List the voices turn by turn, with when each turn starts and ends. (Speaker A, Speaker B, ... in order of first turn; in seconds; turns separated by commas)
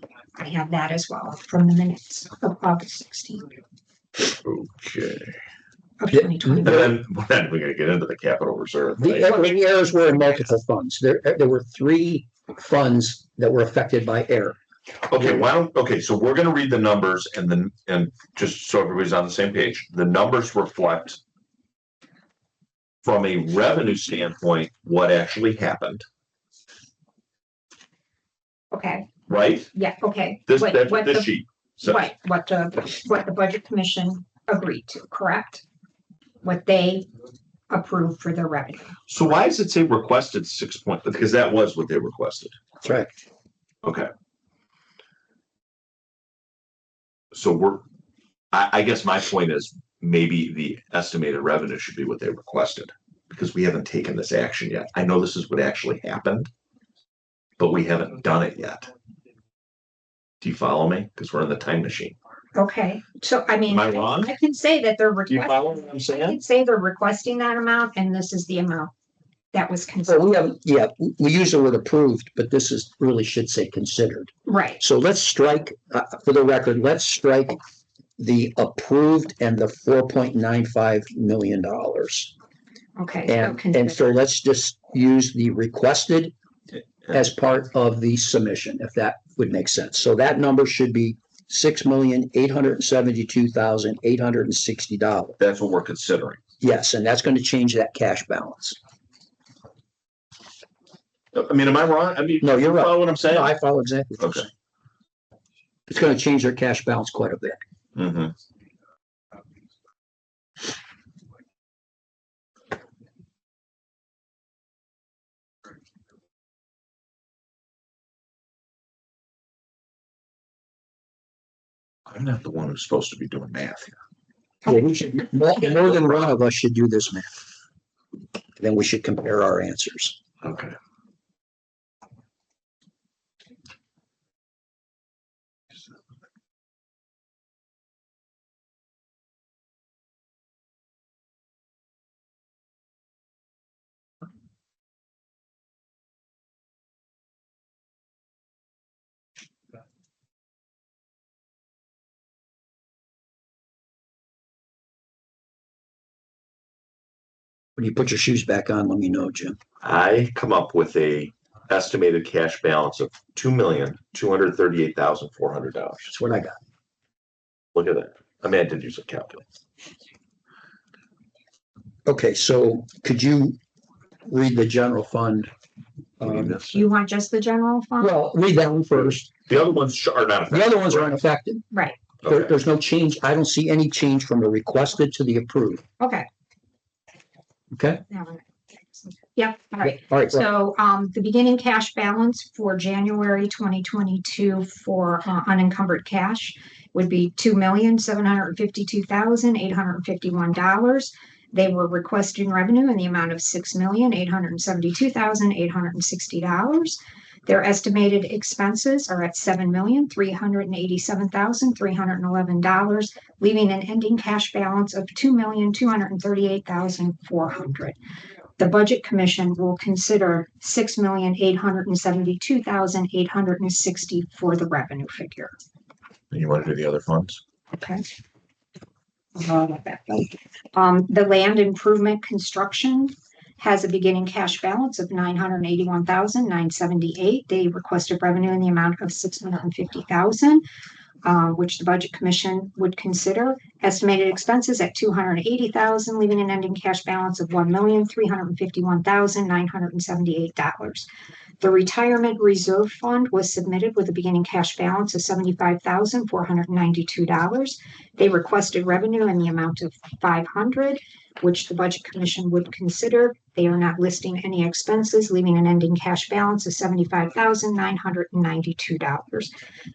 Speaker A: 0.4-3.5, Speaker B: 4.2-5.4, Speaker A: 6.0-6.9, Speaker B: 6.5-9.5, Speaker C: 9.0-14.6, Speaker B: 15.1-21.2, Speaker C: 15.2-15.4, Speaker B: 23.0-26.1, Speaker A: 28.7-29.1, Speaker B: 29.3-29.7, Speaker A: 29.7-35.6, Speaker B: 30.5-32.0, Speaker A: 36.4-37.1, Speaker A: 37.7-39.0, Speaker B: 39.1-42.5, Speaker C: 42.8-43.1, Speaker B: 43.8-44.1, Speaker B: 47.3-47.8, Speaker B: 48.5-56.5, Speaker B: 57.6-58.9, Speaker B: 60.4-62.1, Speaker A: 62.5-68.9, Speaker B: 63.7-64.3, Speaker B: 65.3-66.4, Speaker A: 69.5-70.3, Speaker C: 70.1-77.6, Speaker A: 74.5-74.8, Speaker C: 78.2-82.3, Speaker A: 83.0-84.2, Speaker C: 83.3-86.3, Speaker C: 87.1-95.4, Speaker B: 95.4-96.4, Speaker C: 96.6-98.8, Speaker B: 101.3-103.5, Speaker C: 102.4-104.5, Speaker B: 104.2-104.5, Speaker C: 105.9-107.6, Speaker B: 107.9-108.3, Speaker B: 122.1-124.0, Speaker C: 124.7-127.3, Speaker C: 128.6-130.2, Speaker B: 130.4-130.8, Speaker C: 157.8-159.6, Speaker B: 159.8-166.1, Speaker C: 166.1-166.6, Speaker B: 167.8-169.4, Speaker C: 172.1-173.6, Speaker C: 174.3-175.5, Speaker C: 176.2-176.6, Speaker B: 176.2-176.7, Speaker A: 176.7-178.2, Speaker C: 178.0-179.2, Speaker B: 179.0-181.1, Speaker C: 180.5-181.7, Speaker A: 181.7-182.0, Speaker B: 182.2-182.5, Speaker C: 182.2-185.8, Speaker A: 186.0-186.3, Speaker C: 187.7-188.0, Speaker A: 188.1-218.0, Speaker C: 189.8-190.5, Speaker A: 218.6-225.5, Speaker B: 226.3-227.4, Speaker A: 227.7-228.1, Speaker A: 229.3-240.6, Speaker A: 241.2-251.1, Speaker A: 251.6-269.5